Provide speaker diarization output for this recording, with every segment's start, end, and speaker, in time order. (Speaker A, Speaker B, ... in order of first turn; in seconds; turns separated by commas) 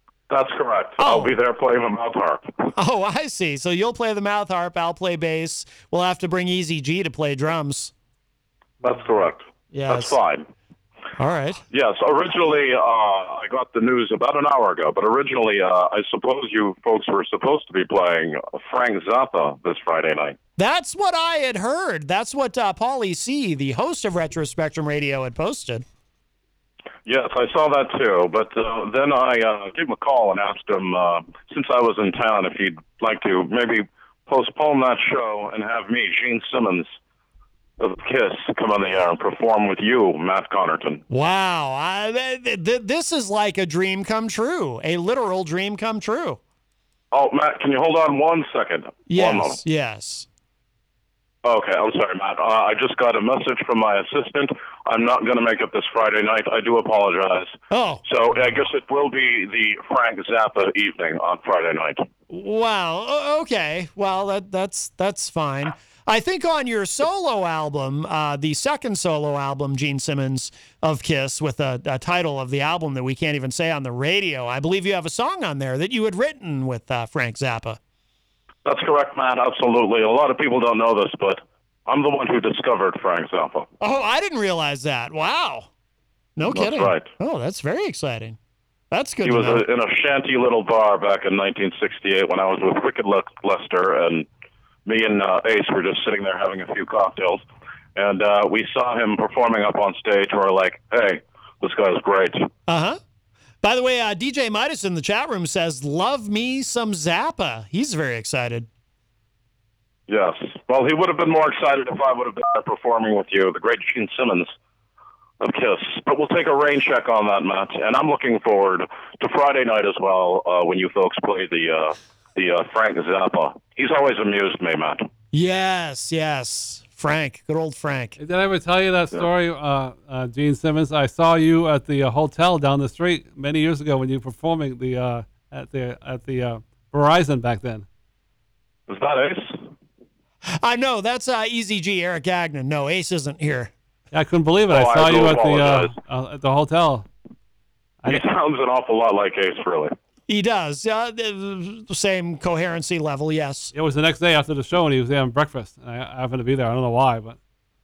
Speaker A: 0.3-2.5, Speaker B: 1.0-1.4, Speaker B: 2.7-7.9, Speaker A: 8.8-10.4, Speaker B: 9.7-10.2, Speaker B: 11.2-11.6, Speaker A: 11.7-20.4, Speaker B: 20.6-25.8, Speaker A: 27.1-36.9, Speaker A: 37.8-41.0, Speaker B: 41.1-46.4, Speaker A: 47.1-49.6, Speaker B: 49.1-50.3, Speaker A: 51.4-62.1, Speaker B: 57.7-58.0, Speaker B: 62.3-77.8, Speaker A: 78.6-83.7, Speaker B: 83.8-85.7, Speaker B: 86.4-88.4, Speaker A: 86.5-87.1, Speaker B: 88.9-89.6, Speaker A: 89.2-94.2, Speaker A: 94.8-97.4, Speaker A: 98.0-102.5, Speaker B: 102.7-103.0, Speaker B: 103.6-108.7, Speaker A: 110.1-114.5, Speaker A: 115.4-125.0, Speaker B: 125.3-128.2, Speaker C: 128.2-137.8, Speaker A: 138.9-139.6, Speaker B: 140.6-143.7, Speaker C: 144.1-147.1, Speaker A: 144.7-145.9, Speaker A: 148.1-149.9, Speaker B: 150.3-153.7, Speaker C: 153.7-157.4